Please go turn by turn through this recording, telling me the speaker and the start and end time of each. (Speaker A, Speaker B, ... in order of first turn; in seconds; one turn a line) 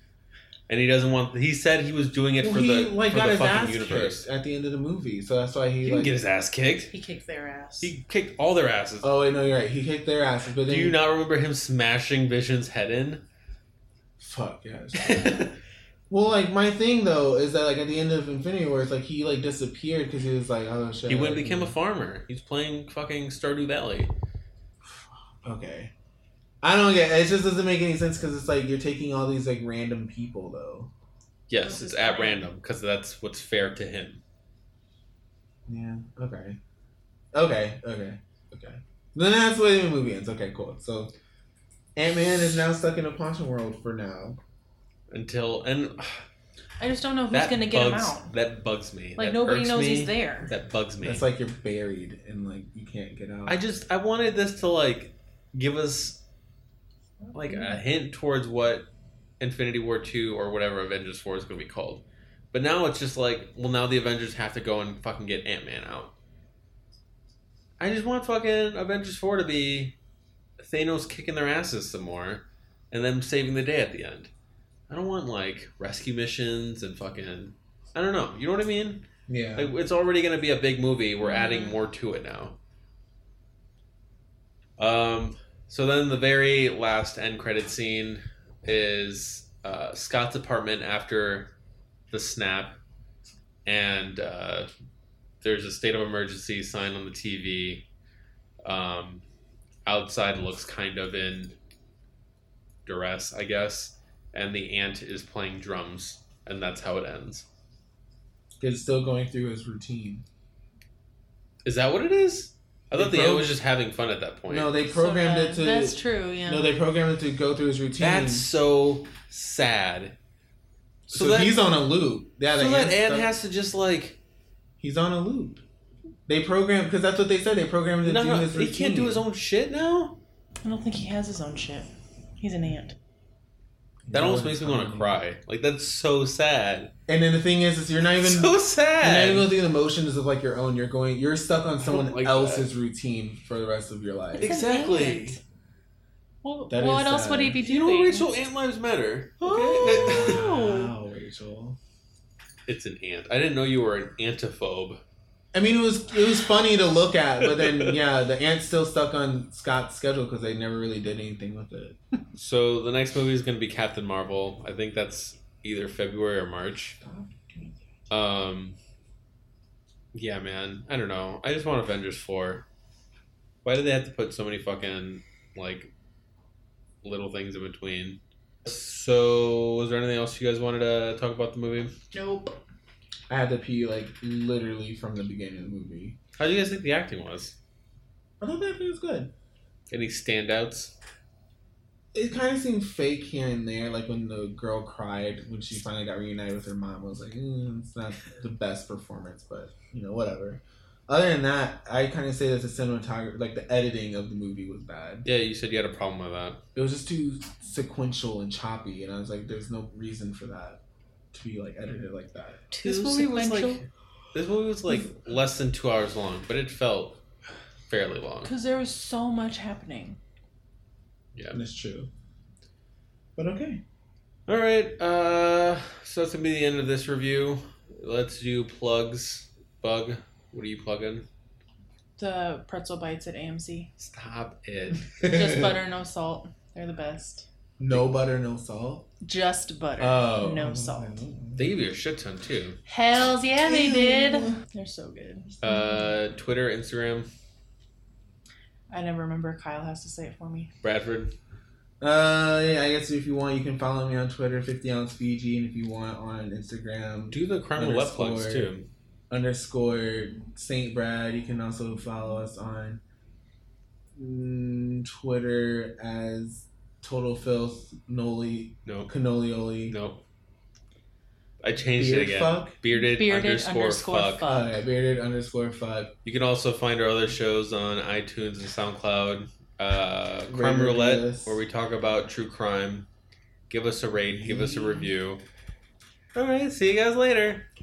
Speaker A: 0.7-4.3
Speaker B: 2.4-6.2
Speaker A: 5.8-6.9
Speaker C: 6.9-7.9
Speaker A: 7.8-9.1
Speaker B: 9.0-11.0
Speaker A: 10.7-13.2
Speaker B: 14.2-15.5
Speaker A: 14.9-15.6
Speaker B: 16.1-21.8
Speaker A: 21.1-24.1
Speaker B: 24.8-25.9
Speaker B: 26.6-30.9
Speaker A: 31.5-34.2
Speaker C: 31.6-32.5
Speaker B: 35.7-36.6
Speaker B: 37.3-41.1
Speaker B: 42.0-44.4
Speaker A: 45.1-46.2
Speaker C: 46.8-48.3
Speaker A: 47.3-51.3
Speaker C: 49.2-50.5
Speaker B: 51.0-53.6
Speaker A: 53.5-56.2
Speaker A: 57.3-58.9
Speaker C: 57.5-57.7
Speaker A: 59.4-66.1
Speaker A: 67.8-70.0
Speaker A: 70.6-74.3
Speaker A: 74.9-82.6
Speaker B: 79.3-79.7
Speaker C: 81.2-81.8
Speaker A: 84.8-91.5
Speaker A: 92.1-92.8
Speaker A: 93.7-94.7
Speaker A: 95.4-97.9
Speaker A: 98.7-99.2
Speaker A: 99.9-101.5
Speaker A: 102.9-107.5
Speaker B: 108.6-110.2
Speaker A: 111.6-114.8
Speaker B: 112.9-113.5
Speaker B: 114.5-118.5
Speaker C: 114.8-116.8
Speaker A: 118.0-120.2
Speaker B: 121.1-123.3
Speaker A: 121.1-121.6
Speaker A: 122.5-124.2
Speaker B: 124.8-125.6
Speaker B: 126.3-129.2
Speaker A: 128.0-130.2
Speaker C: 130.6-131.9
Speaker C: 132.4-133.0
Speaker B: 134.1-135.2
Speaker A: 134.1-136.9
Speaker B: 137.1-144.5
Speaker A: 138.2-139.5
Speaker A: 141.8-142.7
Speaker C: 144.3-145.4
Speaker A: 144.4-145.4
Speaker C: 146.4-148.3
Speaker B: 146.7-147.6
Speaker A: 147.6-150.4
Speaker B: 149.4-151.8
Speaker C: 149.7-150.9
Speaker A: 152.7-155.0
Speaker B: 155.5-162.0
Speaker A: 157.4-158.0
Speaker A: 162.4-167.0
Speaker B: 167.0-167.8
Speaker A: 168.1-168.8
Speaker A: 170.1-172.7
Speaker A: 173.6-175.9
Speaker A: 177.0-181.9
Speaker C: 182.1-182.6
Speaker B: 183.3-186.2
Speaker A: 186.4-187.6
Speaker B: 188.4-189.3
Speaker A: 189.9-191.0
Speaker B: 192.1-205.3
Speaker A: 205.2-206.6
Speaker B: 206.8-210.8
Speaker B: 211.3-212.6
Speaker C: 212.7-213.8
Speaker A: 212.8-217.2
Speaker A: 217.9-218.5
Speaker C: 218.4-220.2
Speaker A: 221.3-221.6
Speaker B: 221.5-222.1
Speaker B: 223.4-223.8
Speaker A: 224.5-231.3
Speaker C: 232.2-233.9
Speaker A: 234.0-235.1
Speaker B: 235.2-235.7
Speaker C: 235.2-237.5
Speaker B: 237.8-239.1
Speaker C: 239.2-241.2
Speaker B: 240.0-241.7
Speaker A: 241.6-242.8
Speaker C: 242.9-245.6
Speaker B: 243.7-244.6
Speaker A: 245.6-247.3
Speaker C: 248.9-250.7
Speaker A: 250.8-251.3
Speaker B: 252.0-258.7
Speaker A: 257.3-258.9
Speaker B: 259.3-263.0
Speaker B: 264.2-270.0
Speaker A: 269.9-270.2
Speaker A: 271.6-274.5
Speaker B: 272.0-272.8
Speaker C: 272.9-274.8
Speaker B: 274.4-276.1
Speaker A: 276.2-283.1
Speaker B: 280.5-281.6
Speaker A: 283.7-285.4
Speaker B: 284.4-285.1
Speaker A: 286.3-287.7